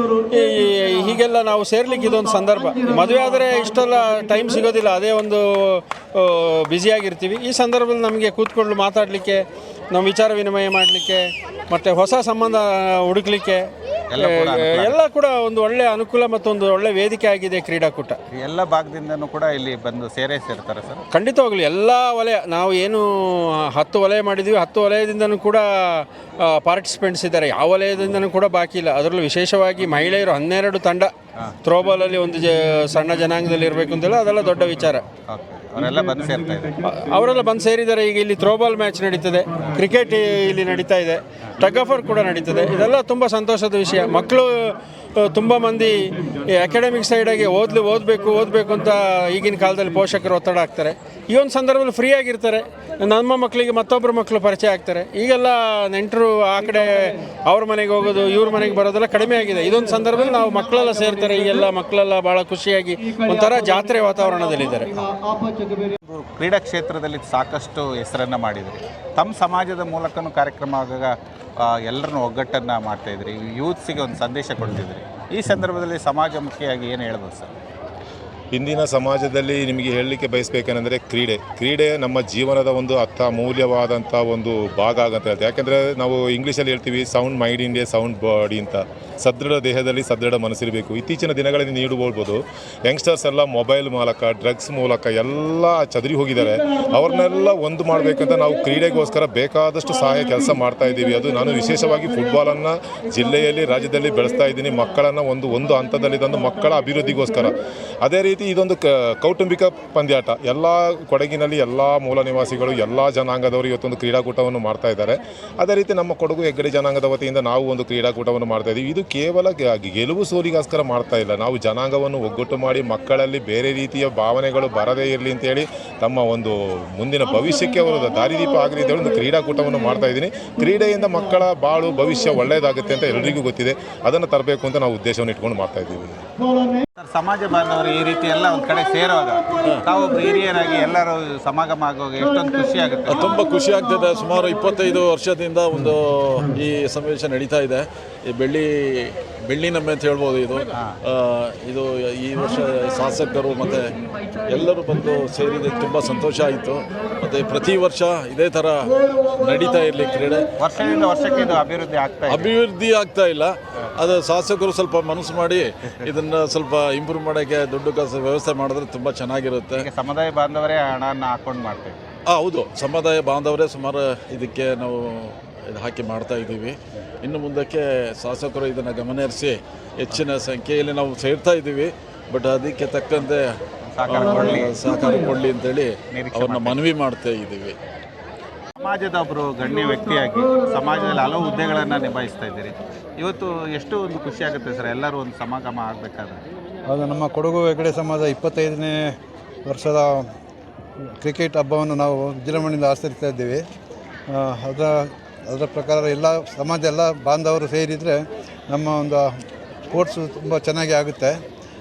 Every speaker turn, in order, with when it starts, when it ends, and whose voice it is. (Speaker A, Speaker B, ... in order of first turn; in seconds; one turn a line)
Speaker A: 0.3-18.2
Speaker B: 14.1-15.0
Speaker B: 18.3-21.0
Speaker A: 21.1-31.1
Speaker A: 31.6-35.0
Speaker B: 35.3-36.8
Speaker A: 36.9-65.1
Speaker B: 39.6-39.9
Speaker B: 66.0-71.1
Speaker B: 71.8-77.5
Speaker C: 78.5-136.2
Speaker B: 137.0-143.3
Speaker D: 143.1-153.9
Speaker D: 154.5-160.5
Speaker B: 160.6-162.5
Speaker D: 162.3-169.9
Speaker B: 169.7-172.0
Speaker D: 172.3-183.4
Speaker B: 183.9-184.8
Speaker D: 184.1-187.8
Speaker B: 186.1-186.9
Speaker B: 188.8-196.4
Speaker E: 196.9-199.1
Speaker E: 199.7-200.2
Speaker E: 201.2-203.6
Speaker E: 204.3-208.2
Speaker E: 208.7-211.4